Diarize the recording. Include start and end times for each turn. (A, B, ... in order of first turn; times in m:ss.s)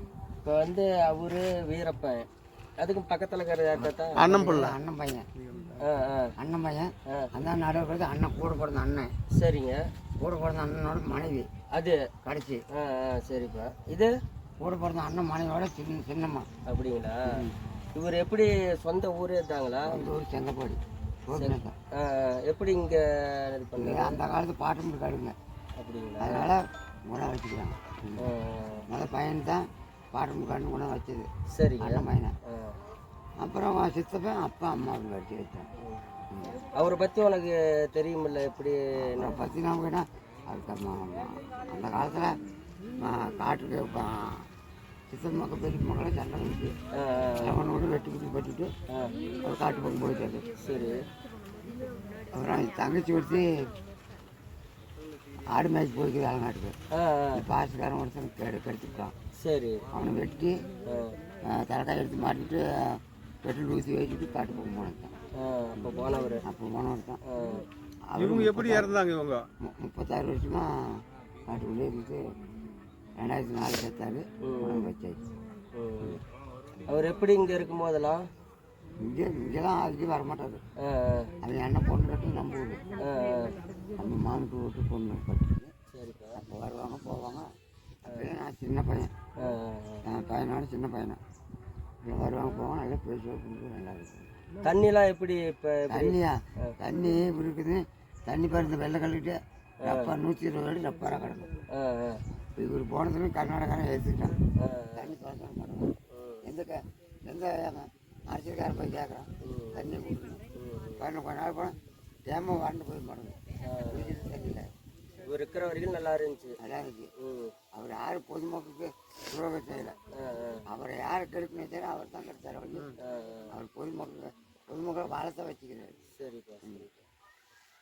0:00.4-0:02.2 A
0:02.8-0:04.4 A
0:04.1-0:04.8 B
0:04.2-0:05.3 C
0:05.5-0:05.8 B
0:05.8-0:06.3 A
0:06.4-0:09.1 C
0:09.4-0:09.8 A
0:10.2-0:11.5 C
0:11.7-0:12.1 A
0:12.2-0:12.6 C
0:12.7-0:14.1 A
0:14.6-0:16.5 C
0:16.7-0:17.3 A
0:18.0-0:20.0 A
0:19.9-0:21.8 C
0:21.3-0:24.2 A
0:23.8-0:25.4 C
0:25.8-0:26.5 A
0:26.2-0:28.3 C
0:28.2-0:28.8 A
0:28.9-0:31.3 C
0:31.5-0:32.8 A
0:31.8-0:32.3 C
0:33.4-0:35.7 C
0:35.9-0:36.1 A
0:36.3-0:36.7 C
0:36.7-0:39.4 A
0:39.0-0:42.3 C
0:42.9-0:44.5 C
0:45.1-0:46.8 C
0:47.0-0:47.6 A
0:47.4-0:48.7 C
0:48.9-0:49.2 A
0:49.4-0:50.5 C
0:50.6-0:51.0 A
0:52.3-0:53.5 C
0:55.5-0:56.7 C
0:56.9-0:57.4 A
0:57.3-0:59.1 C
0:59.4-0:59.8 A
0:59.9-1:00.6 C
1:00.9-1:01.2 A
1:01.4-1:05.1 C
1:05.4-1:06.4 A
1:06.4-1:07.2 C
1:07.3-1:07.6 A
1:08.1-1:09.0 C
1:08.1-1:09.5 B
1:09.6-1:10.7 C
1:11.4-1:12.2 C
1:13.2-1:15.2 C
1:14.4-1:14.8 A
1:15.7-1:16.2 A
1:16.9-1:18.2 A
1:19.0-1:20.6 C
1:20.8-1:21.3 A
1:21.4-1:22.8 C
1:23.0-1:23.6 A
1:23.9-1:25.7 C
1:25.9-1:26.4 A
1:26.3-1:27.5 C
1:28.0-1:29.1 C
1:29.4-1:30.0 A
1:30.0-1:31.2 C
1:32.0-1:34.3 C
1:34.6-1:36.7 A
1:35.9-1:41.5 C
1:39.8-1:40.1 A
1:41.7-1:42.2 A
1:42.4-1:44.4 C
1:44.6-1:45.1 A
1:45.0-1:50.4 C
1:46.1-1:46.4 A
1:49.4-1:49.9 A
1:50.5-1:51.0 A
1:51.0-1:51.8 C
1:52.3-1:54.7 C
1:53.6-1:54.2 A
1:55.3-1:56.6 A
1:56.6-1:57.1 C
1:57.2-1:57.5 A
1:57.7-2:00.0 C
2:00.1-2:00.7 A
2:00.7-2:03.0 C
2:03.0-2:03.5 A
2:03.5-2:06.0 C
2:06.1-2:06.9 A
2:06.6-2:06.9 C